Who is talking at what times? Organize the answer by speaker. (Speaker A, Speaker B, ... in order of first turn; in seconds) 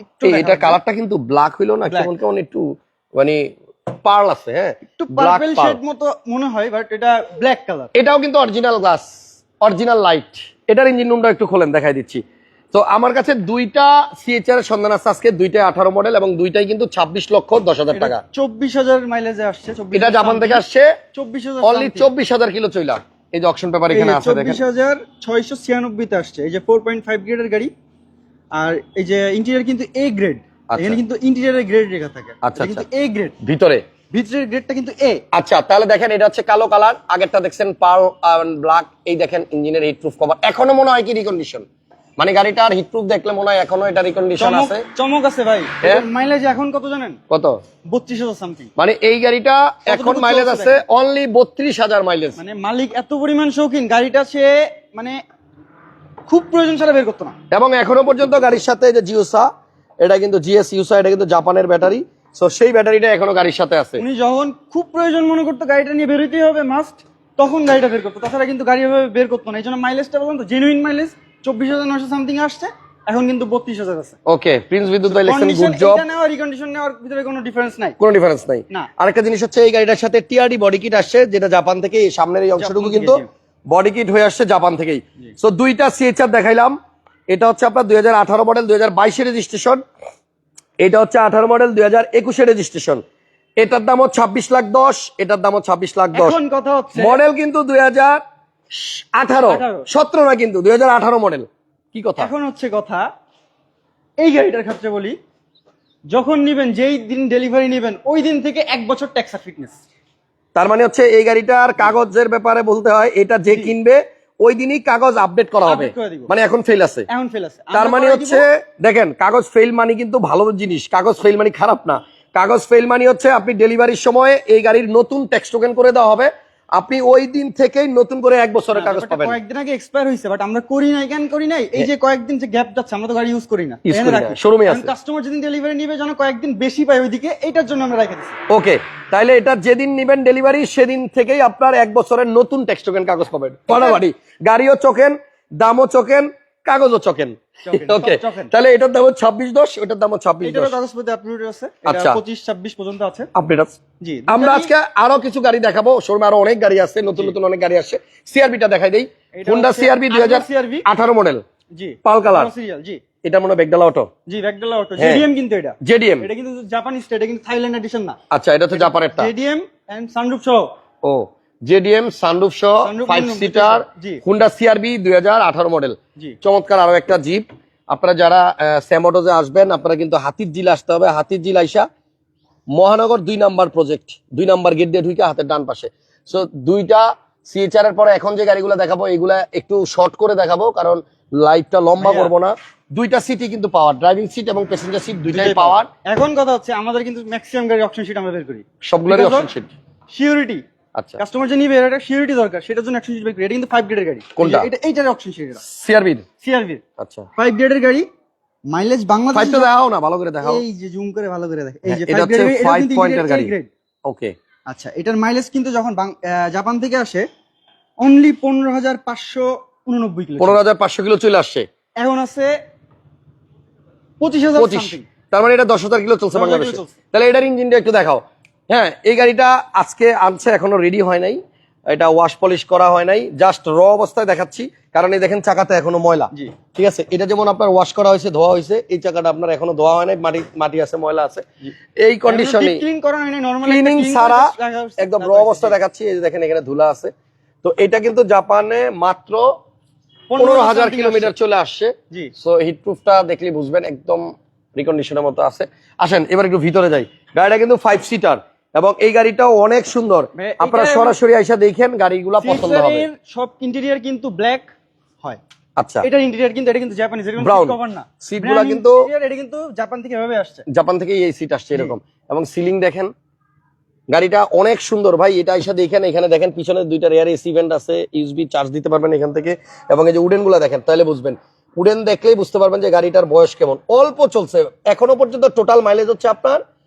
Speaker A: 0.2-0.8, 1.9-2.1, 5.0-7.9, 17.9-22.1, 23.9-27.7, 28.5-33.4, 34.1-35.2, 44.4-47.2, 47.9-48.7, 49.9-50.8, 52.4-55.2, 56.3-57.4, 64.0-74.2, 75.1-78.0, 82.6-83.3, 96.1-97.2, 99.5-99.9, 102.2-103.0, 104.2-105.2, 106.1-109.8, 113.5-113.7, 115.7-116.3, 117.1-118.5, 128.7-138.4, 143.7-144.0, 147.7-148.5, 150.4-153.3, 154.0-154.7, 159.3-160.9, 161.7-163.0, 164.3-168.2, 168.7-170.7, 172.8-174.2, 192.0-192.3, 195.3-199.5, 200.1-200.6, 201.2-205.6, 206.4-206.8, 207.4-208.1, 208.7-209.7, 210.4-213.7, 214.7-217.3, 218.0-220.6, 222.0-222.5, 224.2-225.1, 226.3-227.0, 242.3-245.8, 250.3-251.3, 260.4-261.2, 262.4-264.7, 266.0-270.6
Speaker B: 0.2-5.8, 7.9-18.2, 19.9-21.0, 21.6-24.6, 30.7-31.0, 32.4-32.9, 33.4-33.9, 35.3-41.6, 42.2-44.9, 47.3-47.6, 48.8-52.4, 57.5-59.5, 60.0-64.0, 74.3-76.0, 78.0-86.8, 87.3-89.8, 90.8-93.0, 93.6-96.4, 97.0-102.3, 110.5-117.1, 117.7-129.4, 133.9-134.9, 138.5-150.7, 151.8-152.2, 153.3-161.4, 162.1-162.5, 163.2-164.1, 165.0-165.3, 165.8-166.3, 168.3-169.3, 171.0-181.9, 182.8-195.9, 198.8-199.7, 201.0-201.2, 204.4-204.7, 205.6-206.3, 207.0-207.3, 209.3-210.6, 211.9-213.5, 214.1-214.3, 220.4-221.7, 224.6-241.5, 242.0-242.8, 243.6-247.1, 247.6-249.5, 250.4-263.1, 265.8-266.1, 267.4-269.1, 270.7-273.1, 274.1-286.6